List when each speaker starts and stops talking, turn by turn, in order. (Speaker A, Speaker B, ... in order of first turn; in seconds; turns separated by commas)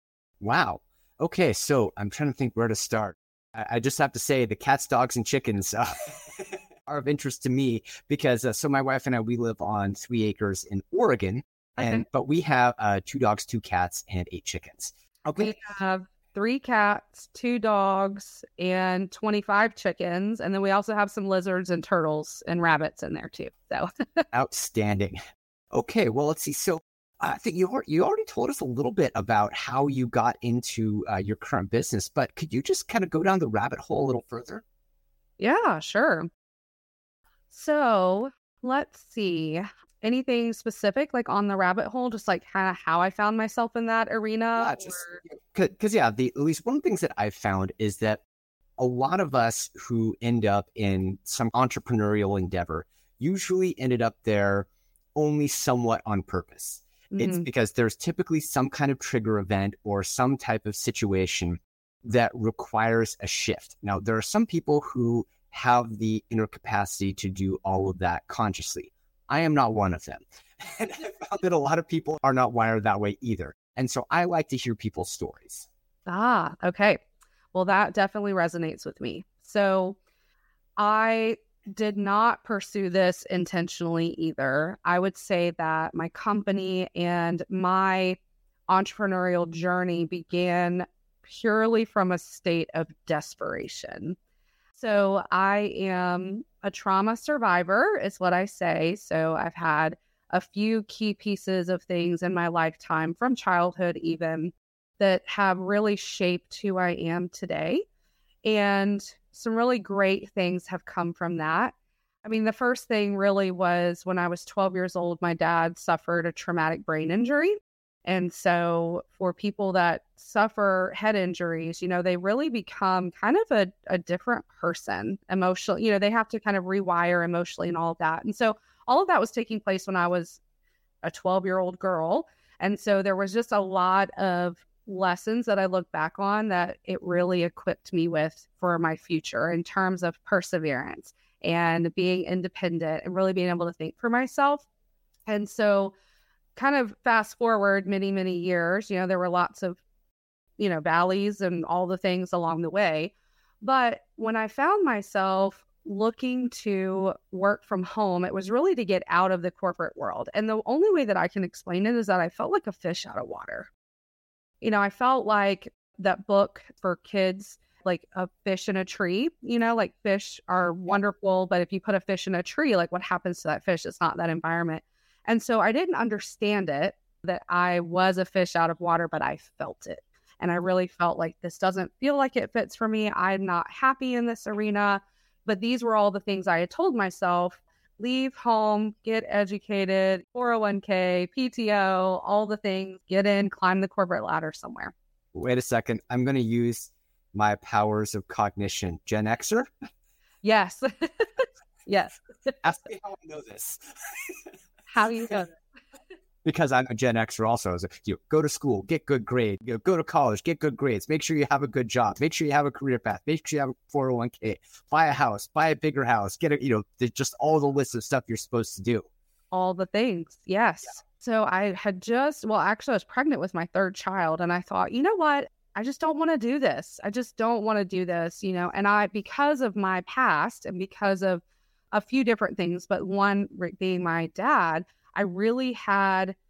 Speaker A: 0.4-15.5, Speaker B: 11.8-12.0, Speaker B: 15.3-24.2, Speaker A: 24.3-25.2, Speaker A: 25.7-34.6, Speaker B: 35.4-36.3, Speaker B: 37.5-45.2, Speaker A: 44.5-48.2, Speaker A: 48.8-75.7, Speaker B: 57.1-57.5, Speaker B: 76.0-77.0, Speaker B: 77.5-80.0, Speaker B: 80.8-88.2, Speaker B: 88.7-94.2, Speaker B: 94.7-107.8, Speaker B: 108.4-130.4, Speaker B: 131.0-144.6, Speaker B: 145.2-145.9, Speaker B: 146.6-149.8, Speaker B: 150.6-163.7, Speaker B: 164.6-194.9, Speaker A: 195.3-199.7, Speaker B: 200.4-202.5, Speaker A: 202.6-204.3, Speaker B: 204.9-205.5, Speaker A: 206.4-219.1, Speaker B: 219.5-236.3